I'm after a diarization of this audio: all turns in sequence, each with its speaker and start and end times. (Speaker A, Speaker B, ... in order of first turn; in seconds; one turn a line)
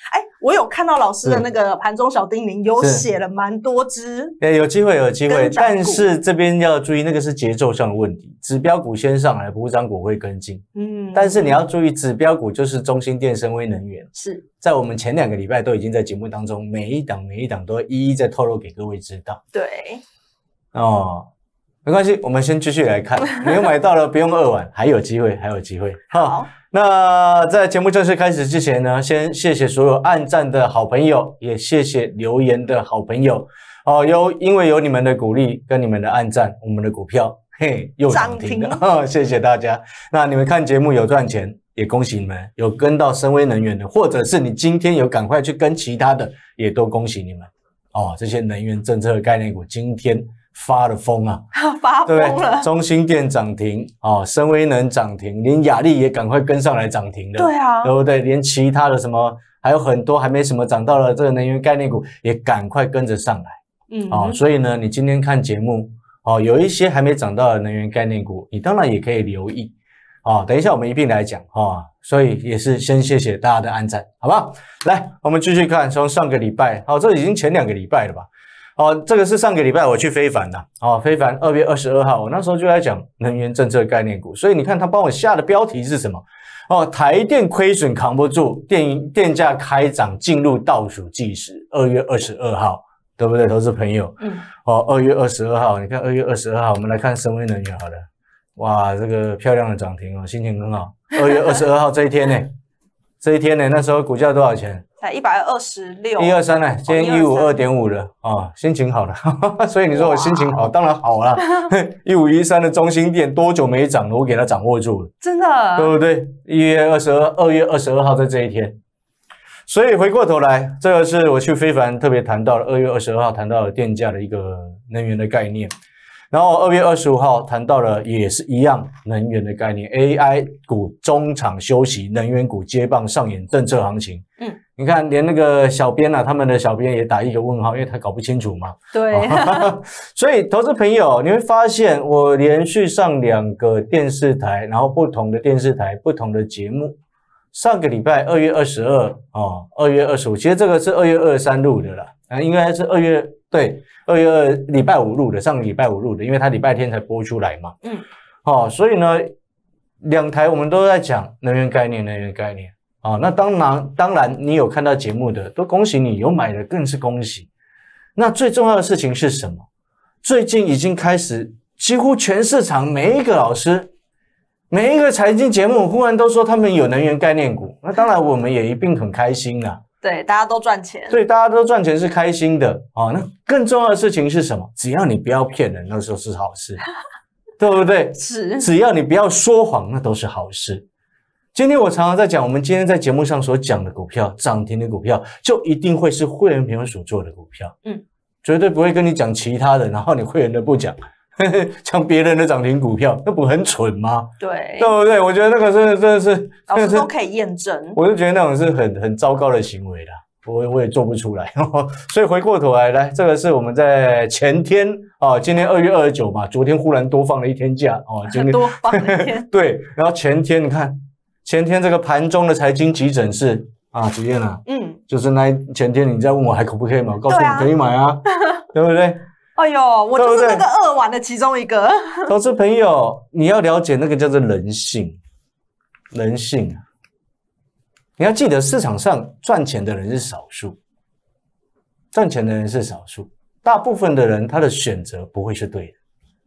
Speaker A: 0.1-4.4
Speaker B: 2.8-3.0
Speaker B: 4.4-19.4
Speaker A: 5.3-6.1
Speaker A: 10.8-11.6
Speaker A: 14.2-14.4
Speaker A: 19.5-20.0
Speaker B: 20.7-21.3
Speaker B: 21.9-51.4
Speaker A: 26.1-26.5
Speaker A: 38.1-38.8
Speaker A: 51.5-52.7
Speaker B: 52.1-63.6
Speaker A: 57.4-57.9
Speaker A: 63.9-64.4
Speaker B: 64.1-102.5
Speaker A: 94.2-94.5
Speaker B: 103.2-104.8
Speaker A: 105.0-107.6
Speaker B: 106.2-115.1
Speaker A: 109.9-110.6
Speaker A: 115.2-116.0
Speaker B: 115.8-118.8
Speaker B: 119.7-125.7
Speaker B: 126.3-134.2
Speaker B: 134.8-147.0
Speaker A: 138.9-139.7
Speaker B: 147.5-157.8
Speaker B: 158.4-159.3
Speaker B: 160.0-167.5
Speaker B: 168.2-169.7
Speaker B: 170.2-173.9
Speaker B: 174.7-179.8
Speaker A: 180.0-181.2
Speaker B: 181.1-186.8
Speaker B: 187.6-190.9
Speaker A: 188.2-188.7
Speaker B: 191.5-197.7
Speaker B: 198.4-207.1
Speaker A: 204.4-204.9
Speaker A: 206.7-208.0
Speaker B: 207.9-228.2
Speaker A: 218.3-219.5
Speaker A: 224.7-225.0
Speaker A: 227.3-227.7
Speaker B: 228.7-229.2
Speaker A: 229.6-232.3
Speaker B: 230.2-230.7
Speaker B: 232.3-235.2
Speaker B: 236.1-236.8
Speaker B: 238.2-240.8
Speaker B: 242.1-246.0